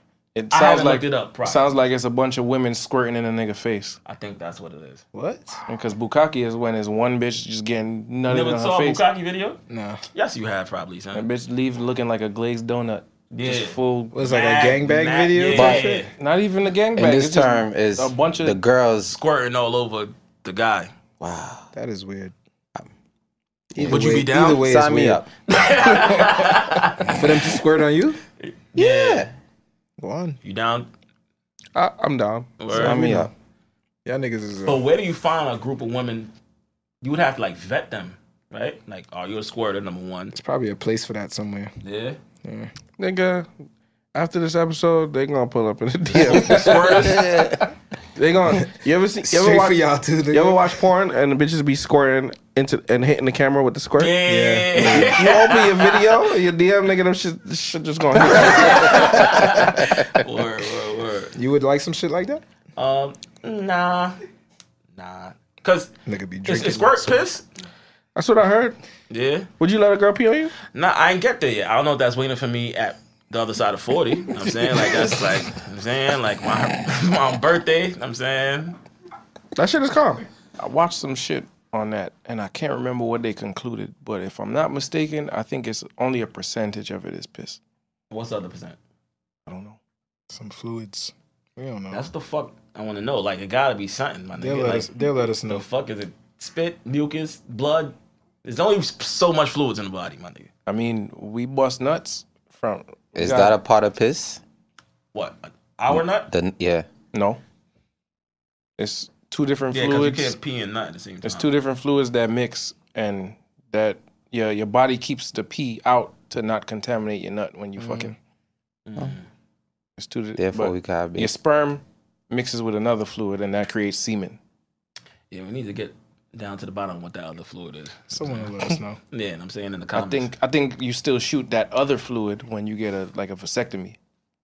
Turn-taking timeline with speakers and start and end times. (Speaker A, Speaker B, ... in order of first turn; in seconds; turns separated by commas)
Speaker A: 0.3-4.0, Speaker B: 0.5-1.7, Speaker B: 4.0-5.0, Speaker C: 5.1-5.6, Speaker A: 5.7-9.0, Speaker B: 8.3-9.6, Speaker C: 9.7-10.0, Speaker B: 10.1-11.3, Speaker A: 11.1-14.1, Speaker B: 13.3-16.1, Speaker C: 14.1-16.1, Speaker D: 15.5-15.9, Speaker A: 16.2-18.6, Speaker D: 16.9-19.2, Speaker B: 19.1-20.9, Speaker D: 21.2-21.7, Speaker C: 21.7-22.3, Speaker C: 23.7-25.2, Speaker D: 23.8-25.3, Speaker B: 23.8-24.7, Speaker B: 25.5-27.2, Speaker C: 27.0-28.2, Speaker B: 28.4-29.3, Speaker D: 28.7-29.3, Speaker C: 30.0-30.4, Speaker B: 30.4-30.9, Speaker E: 31.7-32.5, Speaker B: 32.6-33.1, Speaker C: 32.7-33.3, Speaker D: 32.7-33.3, Speaker C: 34.0-34.8, Speaker B: 34.6-36.3, Speaker B: 37.0-40.3, Speaker C: 40.3-41.7, Speaker B: 41.8-42.2, Speaker C: 42.4-42.7, Speaker E: 43.0-43.5, Speaker E: 44.1-47.0, Speaker B: 46.3-47.2, Speaker D: 46.9-47.6, Speaker E: 48.2-54.2, Speaker C: 49.3-50.7, Speaker B: 54.0-56.1, Speaker C: 54.2-55.2, Speaker E: 54.8-59.7, Speaker B: 58.4-61.3, Speaker C: 61.4-62.4, Speaker B: 62.8-64.2, Speaker B: 65.0-65.9, Speaker C: 66.0-67.2, Speaker B: 66.5-67.5, Speaker E: 68.2-68.8, Speaker B: 69.1-69.5, Speaker E: 69.6-70.5, Speaker B: 70.7-78.8, Speaker E: 79.5-80.2, Speaker A: 80.6-87.6, Speaker B: 88.1-88.8, Speaker A: 89.5-89.8, Speaker C: 90.3-92.1, Speaker B: 91.9-94.9, Speaker C: 94.4-95.7, Speaker B: 95.5-100.5, Speaker A: 100.7-103.5, Speaker D: 103.1-104.4, Speaker B: 105.1-106.3, Speaker D: 105.9-106.9, Speaker A: 107.1-107.4, Speaker A: 108.8-110.4, Speaker B: 109.7-111.5, Speaker A: 111.2-118.2, Speaker C: 117.8-118.1, Speaker B: 118.9-119.3, Speaker A: 120.0-124.4, Speaker D: 120.4-121.3, Speaker B: 125.3-128.5, Speaker C: 128.1-129.0, Speaker B: 129.1-130.3, Speaker A: 129.9-134.0